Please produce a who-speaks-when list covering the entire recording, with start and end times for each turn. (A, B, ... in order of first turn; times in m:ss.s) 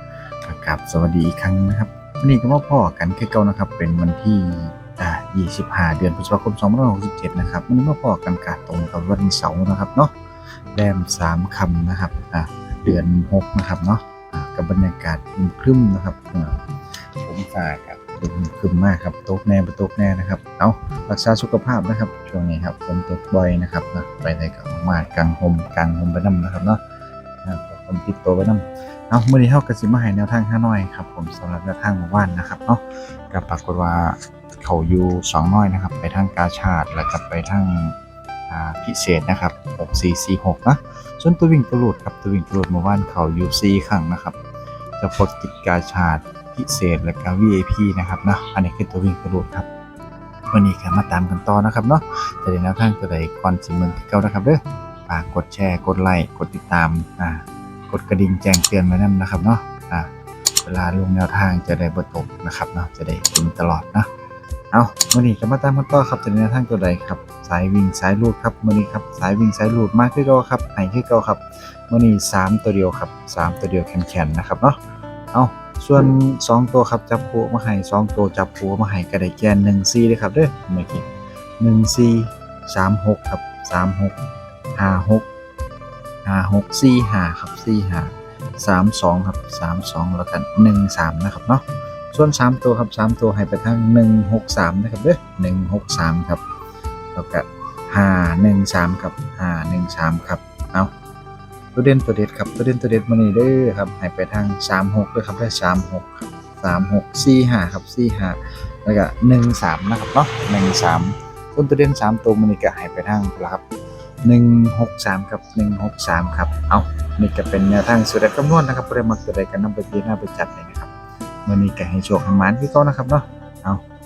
0:00.4-0:10.1 A
0:10.7-0:26.8 A
0:27.4-0:38.0 A
0:38.5-0:44.4 A
0:45.0-0:49.7 A
0:50.5-1:00.1 A
1:00.6-1:04.1 A
1:04.7-1:14.8 A
1:15.3-1:21.1 A
1:21.6-1:24.2 A
1:24.8-1:25.3 A
1:26.2-1:36.4 A
1:37.2-1:40.9 A
1:41.8-1:53.6 A
1:54.2-2:00.9 A
2:01.5-2:03.8 A